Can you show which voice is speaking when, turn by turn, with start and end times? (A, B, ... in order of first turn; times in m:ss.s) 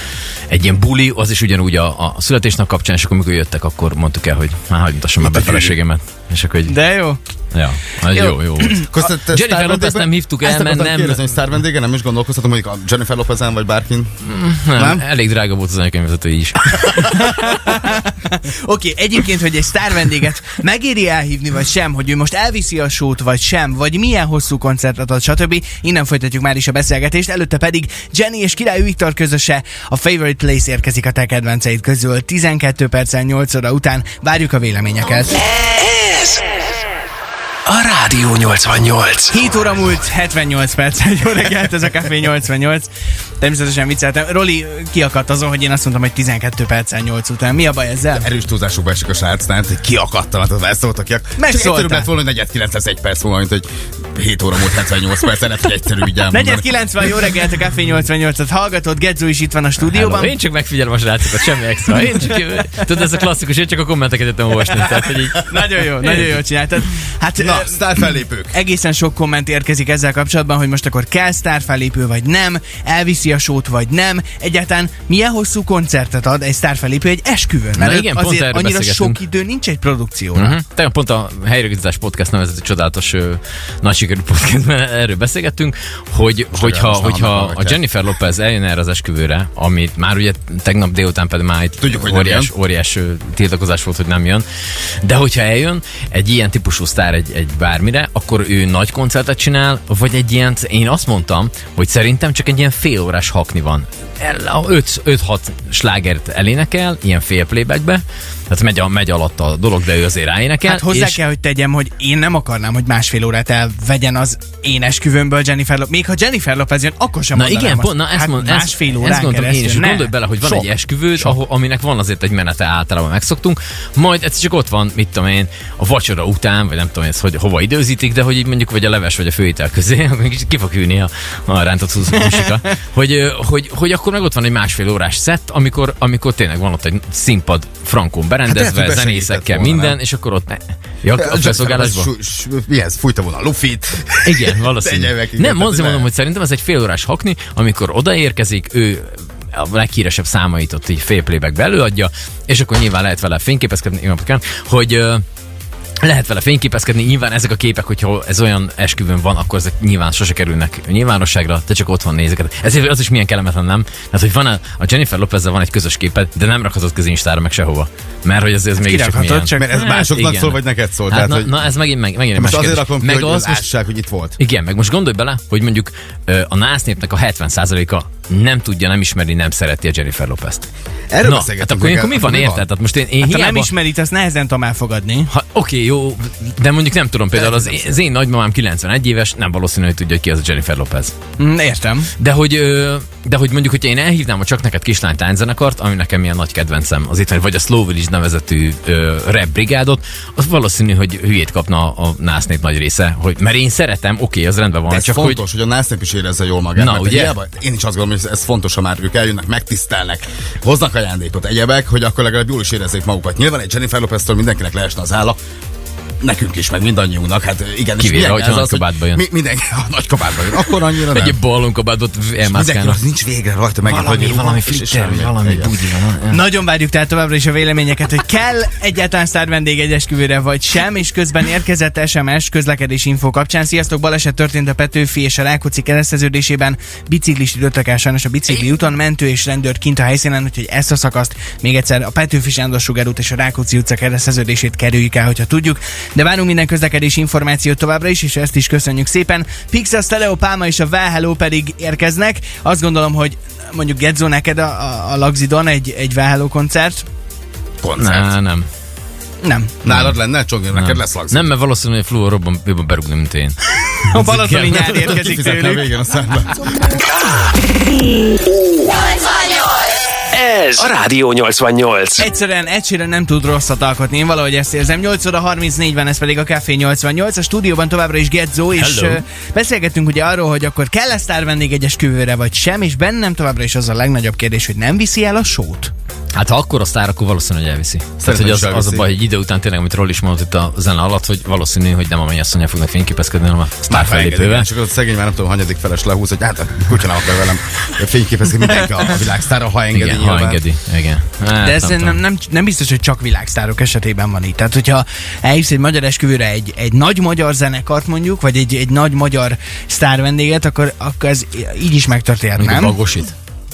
0:00.5-0:06.7 A
0:05.2-0:05.8 B
0:06.6-0:07.2 C
0:07.5-0:11.2 A
0:08.7-0:14.1 B
0:14.2-0:17.6 A
0:14.7-0:15.0 B
0:16.8-0:35.5 C
0:35.6-0:36.6 D
0:37.6-0:39.3 D
0:39.3-0:42.9 C
0:43.4-0:48.3 C
0:48.1-0:56.8 B
0:51.4-0:52.1 C
0:56.3-1:00.4 C
0:59.8-1:06.4 A
1:05.4-1:20.6 C
1:07.4-1:08.6 B
1:17.8-1:19.2 A
1:20.3-1:34.4 A
1:26.5-1:27.8 B
1:31.8-1:32.5 B
1:35.0-1:51.2 A
1:50.6-2:01.4 C
1:57.3-2:22.1 A
2:18.5-2:20.0 B
2:21.1-2:26.1 B
2:24.2-2:35.2 A
2:36.0-2:53.7 A
2:48.8-2:49.7 C
2:49.6-2:51.6 B
2:52.3-2:54.4 B
2:54.4-3:00.7 A
3:01.1-3:02.6 B
3:01.2-3:03.7 A
3:03.2-3:05.3 C
3:05.3-3:11.1 A
3:07.5-3:08.0 C
3:11.4-3:12.1 C
3:12.2-3:25.4 A
3:24.9-3:35.4 B
3:26.7-3:27.4 A
3:36.2-3:41.4 B
3:38.0-3:39.2 A
3:41.1-3:43.0 A
3:42.4-3:45.7 B
3:43.8-3:46.4 A
3:46.3-4:17.0 C
4:17.8-4:18.3 B
4:18.0-4:18.6 A
4:19.4-4:19.8 C
4:19.8-4:21.5 B
4:19.9-4:20.2 A
4:20.7-4:25.4 A
4:24.1-4:25.9 C
4:24.9-4:27.1 B
4:28.3-4:29.5 D
4:30.3-4:32.2 D
4:32.2-4:45.9 C
4:38.7-4:39.2 A
4:46.4-4:54.7 A
4:48.2-4:49.1 B
4:53.9-5:00.6 B
4:59.9-5:02.2 A
5:01.6-5:13.0 C
5:12.6-5:13.3 A